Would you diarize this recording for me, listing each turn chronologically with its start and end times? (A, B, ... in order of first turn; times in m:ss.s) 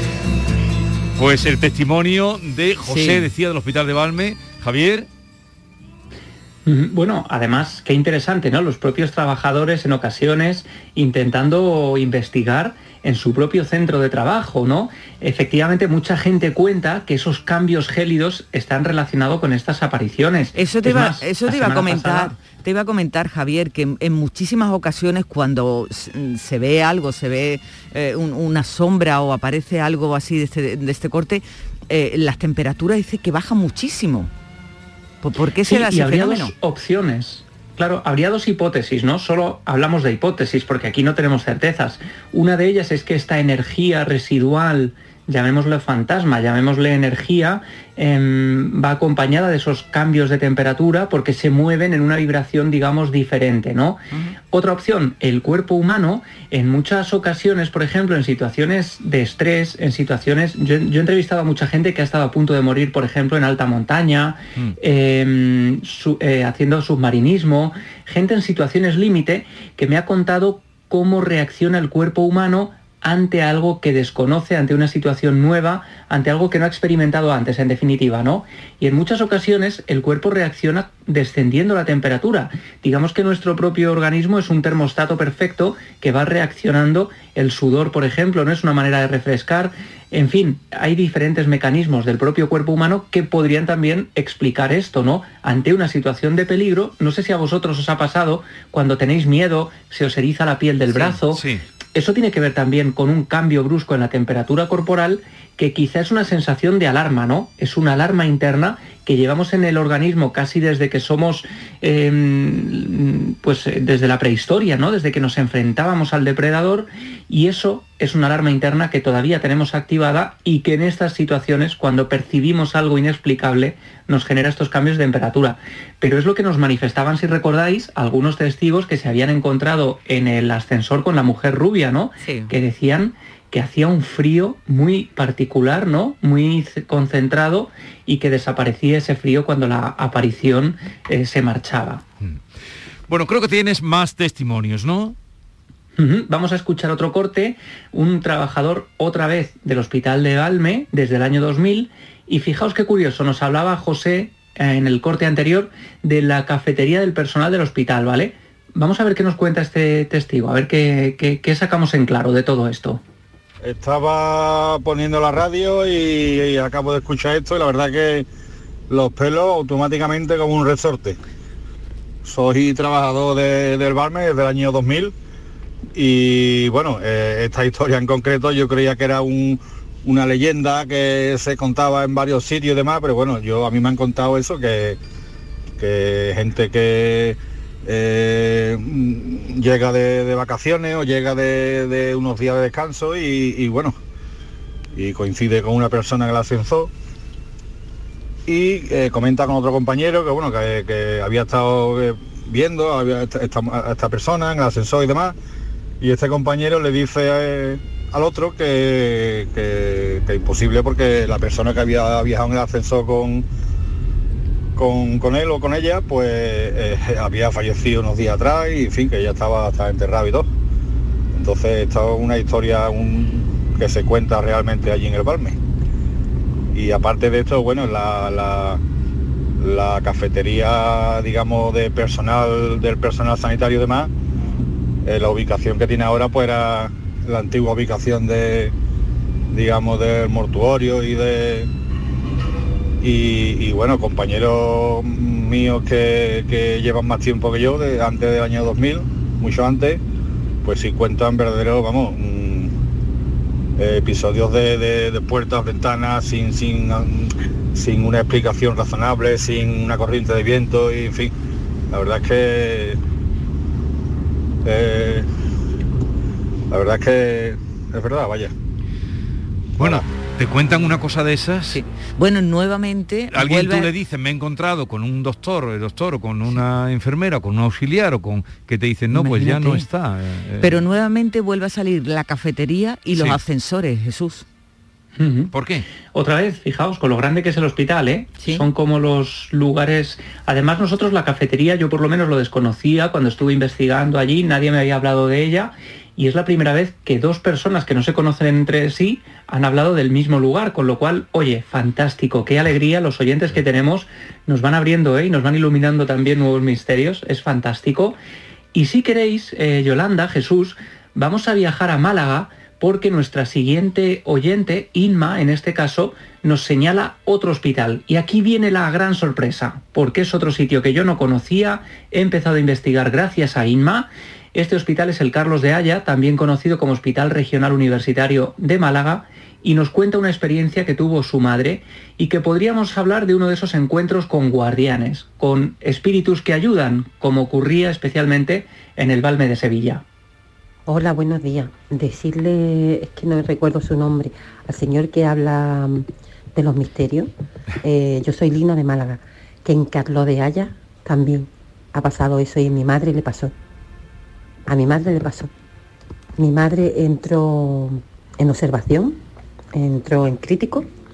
0:01.2-0:05.1 A
0:02.8-0:03.3 B
0:06.6-0:22.4 C
0:20.5-0:34.3 B
0:35.2-0:36.5 B
0:35.6-1:41.4 C
1:40.9-1:41.6 A
1:41.9-2:22.0 C
2:12.2-2:12.5 B
2:23.1-2:25.1 A
2:26.0-2:43.0 C
2:43.6-2:48.3 D
2:48.9-2:51.2 D
2:52.2-2:55.1 D
2:55.9-3:05.0 D
3:05.8-3:14.0 D
3:14.9-3:16.9 D
3:18.5-3:25.3 D
3:26.0-3:33.4 D
3:34.7-3:40.5 D
3:41.3-3:45.6 D
3:46.7-3:48.8 D
3:49.6-3:54.1 D
3:55.0-3:58.7 D
3:59.5-4:01.7 D
4:03.0-4:10.0 D
4:10.6-4:12.7 D
4:13.8-4:21.3 D
4:21.9-4:23.0 D
4:24.6-4:25.2 D
4:26.7-4:28.5 D
4:29.8-4:30.0 D
4:29.8-4:31.8 A
4:31.7-4:33.9 B
4:33.3-4:40.8 A
4:39.1-4:39.8 B
4:40.6-4:44.4 B
4:43.1-4:43.4 A
4:45.2-4:45.5 C
4:45.5-4:45.8 A
4:46.1-5:08.2 C
4:48.4-4:48.6 B
5:08.7-5:40.0 C
5:40.8-5:47.3 E
5:47.8-5:53.5 E
5:54.7-5:55.5 E
5:56.4-5:59.2 E
5:59.7-6:00.9 E